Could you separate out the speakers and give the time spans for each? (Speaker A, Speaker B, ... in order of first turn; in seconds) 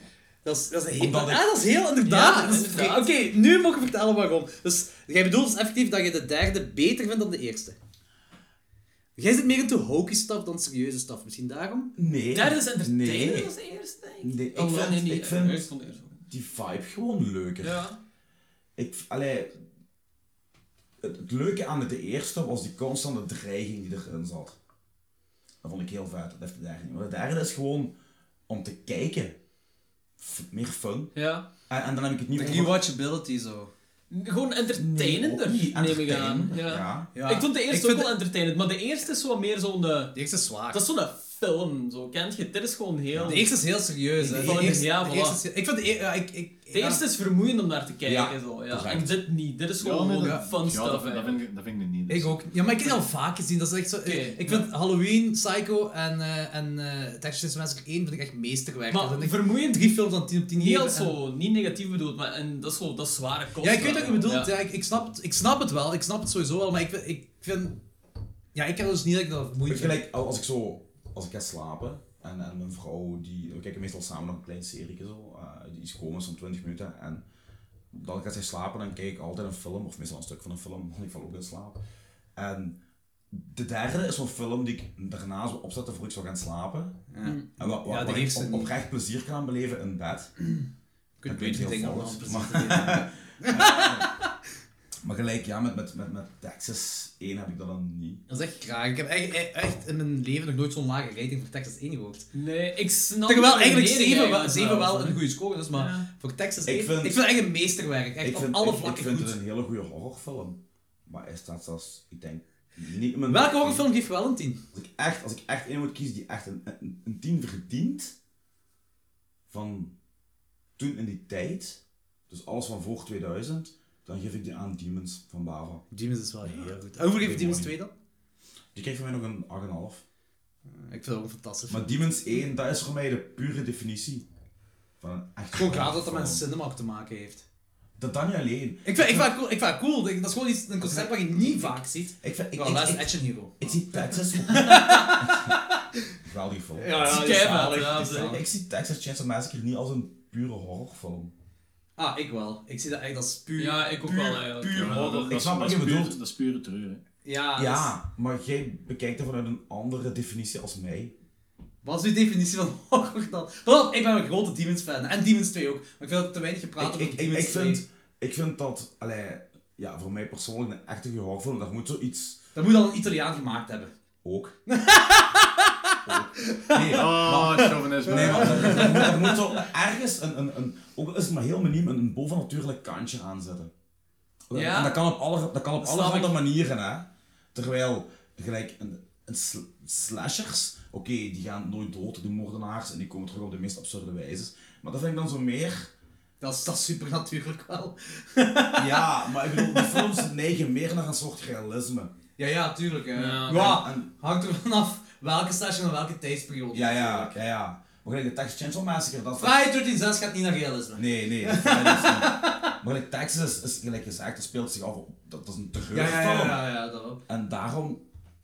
Speaker A: 0.4-7.8, 9.2-11.9, 32.3-33.7, 37.1-38.1, 40.1-40.8, 43.3-47.0, 52.1-61.1, 63.6-67.8, 68.5-70.0, 87.1-88.7, 91.2-94.2, 98.3-102.2, 103.3-109.4, 113.2-114.6, 125.9-127.9, 130.7-132.0, 135.5-137.4, 138.8-145.8, 146.8-148.4, 152.0-155.3, 157.2-157.9, 161.8-167.8, 172.5-173.9, 174.7-179.4, 196.4-200.2, 202.4-207.3, 209.4-212.7, 215.9-217.2
Speaker B: 0.9-1.5, 11.9-13.5, 14.2-15.7, 16.3-17.9, 18.8-19.6, 21.0-24.6, 25.6-27.9, 28.5-29.4, 30.2-31.1, 31.7-32.8, 34.7-37.1, 43.1-43.5, 44.2-44.8, 48.0-49.1, 69.7-77.2, 77.9-81.8, 82.3-82.8, 83.3-87.0, 87.6-90.3, 91.2-94.1, 95.0-98.2, 106.6-107.3, 108.2-113.9, 114.7-118.2, 119.5-119.9, 120.8-125.8, 126.4-127.7, 128.7-130.0, 131.7-134.2, 135.0-136.4, 138.0-139.3, 140.8-145.6, 146.2-151.3, 154.8-156.2, 157.6-161.1, 166.8-172.4, 174.2-174.5, 176.1-183.7, 184.5-195.9, 198.8-202.1, 203.5-204.1, 206.7-209.7, 210.9-216.6, 217.3-218.0
Speaker C: 2.0-3.1, 12.3-16.2, 17.6-18.0, 31.1-31.4, 34.1-43.5, 44.4-45.4, 46.7-51.4, 54.0-54.7, 58.9-59.9, 60.5-64.5, 102.3-105.2, 105.7-106.1, 147.1-148.4, 153.6-155.1, 184.5-185.0, 185.8-186.3, 203.1-203.8
Speaker D: 49.8-52.6, 154.7-157.0, 176.9-179.1